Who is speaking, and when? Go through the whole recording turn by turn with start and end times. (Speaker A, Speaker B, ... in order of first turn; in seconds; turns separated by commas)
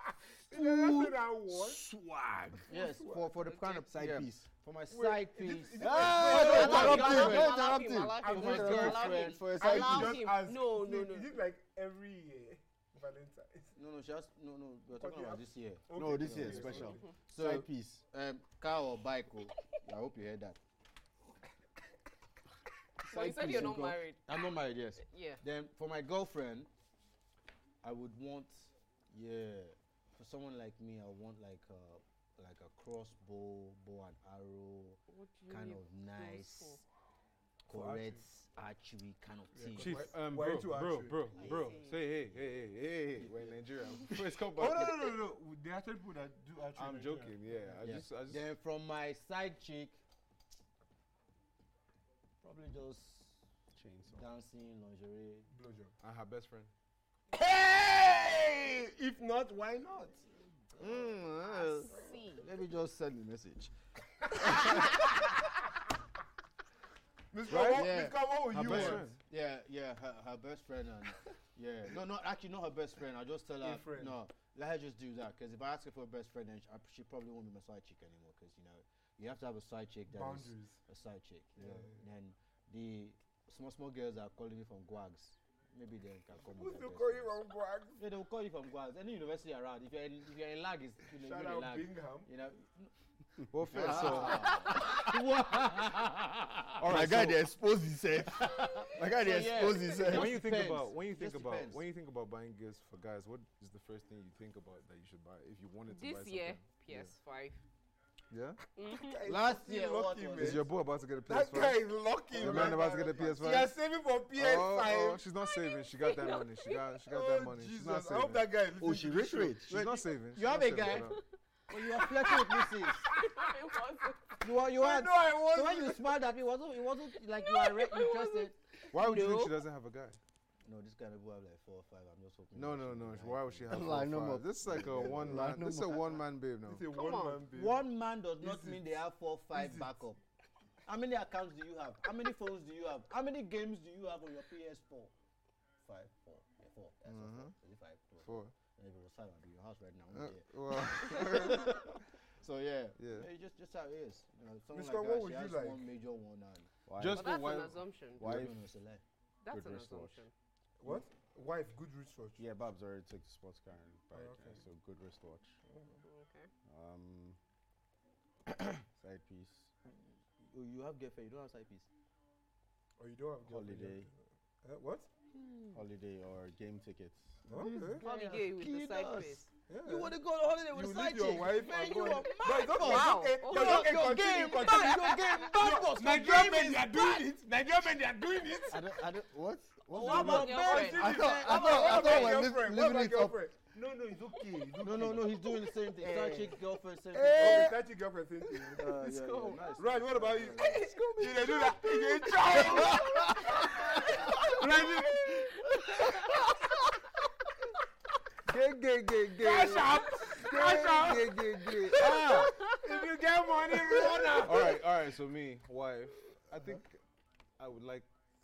Speaker A: 0.5-1.8, Speaker B: 0.6-1.1, Speaker C: 2.6-7.6, Speaker A: 2.7-3.3, Speaker D: 3.4-3.8, Speaker B: 3.7-4.5, Speaker A: 4.9-7.5, Speaker B: 5.8-10.3, Speaker D: 6.2-11.3, Speaker C: 8.2-9.4, Speaker A: 8.2-13.8, Speaker C: 13.8-20.6, Speaker A: 15.0-17.1, Speaker B: 15.9-18.0, Speaker D: 23.0-24.4, Speaker B: 23.1-24.0, Speaker C: 23.2-26.7, Speaker D: 25.0-25.4, Speaker C: 27.8-36.8, Speaker D: 35.1-36.8, Speaker C: 37.7-40.1, Speaker A: 37.7-38.2, Speaker A: 39.6-41.5, Speaker E: 39.8-45.2, Speaker D: 41.4-42.0, Speaker C: 41.4-42.4, Speaker C: 43.1-43.6, Speaker A: 44.6-47.8, Speaker E: 46.8-48.5, Speaker C: 47.8-50.0, Speaker C: 52.4-53.4, Speaker B: 53.8-54.2, Speaker C: 54.1-55.5, Speaker A: 55.5-55.9, Speaker E: 56.0-56.7, Speaker A: 57.3-60.2, Speaker C: 60.8-63.7, Speaker E: 60.8-61.8, Speaker D: 61.3-62.5, Speaker A: 64.3-65.1, Speaker C: 64.3-65.0, Speaker A: 67.3-69.1, Speaker E: 67.5-67.9, Speaker C: 67.5-87.4, Speaker E: 68.5-69.2, Speaker A: 73.6-74.2, Speaker A: 80.1-80.8, Speaker A: 81.6-82.0, Speaker A: 86.4-88.0, Speaker C: 88.0-92.9, Speaker A: 91.1-92.3, Speaker E: 93.5-94.7, Speaker B: 93.7-94.4, Speaker C: 93.7-96.8, Speaker E: 96.8-97.5, Speaker B: 96.8-100.4, Speaker C: 98.2-101.8, Speaker E: 100.0-107.1, Speaker D: 105.9-107.6, Speaker E: 108.3-108.6, Speaker D: 108.8-109.2, Speaker A: 108.9-110.7, Speaker C: 109.3-110.7, Speaker E: 110.4-113.8, Speaker A: 111.3-115.2, Speaker C: 112.5-112.8, Speaker E: 114.3-118.5, Speaker D: 115.5-116.8, Speaker A: 117.1-119.6, Speaker B: 118.8-120.0, Speaker E: 119.7-121.2, Speaker C: 120.3-121.2, Speaker C: 121.7-123.1, Speaker A: 122.2-123.4, Speaker D: 123.0-124.4, Speaker C: 124.4-128.6, Speaker A: 124.6-126.1, Speaker D: 127.4-129.6, Speaker E: 128.9-130.2, Speaker C: 130.7-134.0, Speaker E: 132.6-136.9, Speaker B: 133.7-136.2, Speaker A: 136.7-137.8, Speaker D: 136.9-137.4, Speaker C: 137.5-140.2, Speaker A: 138.4-139.0, Speaker A: 139.5-139.9, Speaker C: 140.9-145.1, Speaker C: 145.8-156.7, Speaker E: 147.1-147.5, Speaker E: 148.2-148.5, Speaker E: 150.1-152.0, Speaker E: 153.0-153.3, Speaker A: 154.7-155.9, Speaker B: 156.9-157.3, Speaker E: 157.0-157.8, Speaker D: 157.1-158.4, Speaker B: 158.2-158.7, Speaker C: 158.2-159.0, Speaker D: 159.4-160.3, Speaker B: 159.5-160.1, Speaker E: 159.6-160.1, Speaker A: 160.8-162.4, Speaker B: 162.4-165.6, Speaker A: 164.1-164.6, Speaker A: 165.7-166.0, Speaker D: 166.0-166.5, Speaker B: 166.7-167.4, Speaker B: 168.9-169.7, Speaker C: 170.5-171.9, Speaker A: 173.0-175.1, Speaker B: 173.4-174.1, Speaker C: 175.3-175.8, Speaker B: 175.7-178.0, Speaker A: 177.5-178.1, Speaker C: 177.6-187.3, Speaker D: 178.0-179.5, Speaker A: 179.7-180.2, Speaker A: 180.7-188.9, Speaker D: 182.7-185.5, Speaker C: 188.7-192.4, Speaker B: 189.3-193.4, Speaker D: 189.9-192.2, Speaker A: 190.1-196.6, Speaker C: 194.8-197.8, Speaker A: 197.2-199.0, Speaker B: 197.2-197.8, Speaker C: 198.8-201.0, Speaker A: 199.8-206.5, Speaker B: 200.8-202.1, Speaker C: 202.5-204.8, Speaker D: 204.1-204.6, Speaker C: 205.6-206.2, Speaker E: 208.5-212.3, Speaker A: 209.4-214.8, Speaker C: 211.9-212.6, Speaker D: 212.5-213.0, Speaker E: 214.4-217.0, Speaker E: 217.6-218.1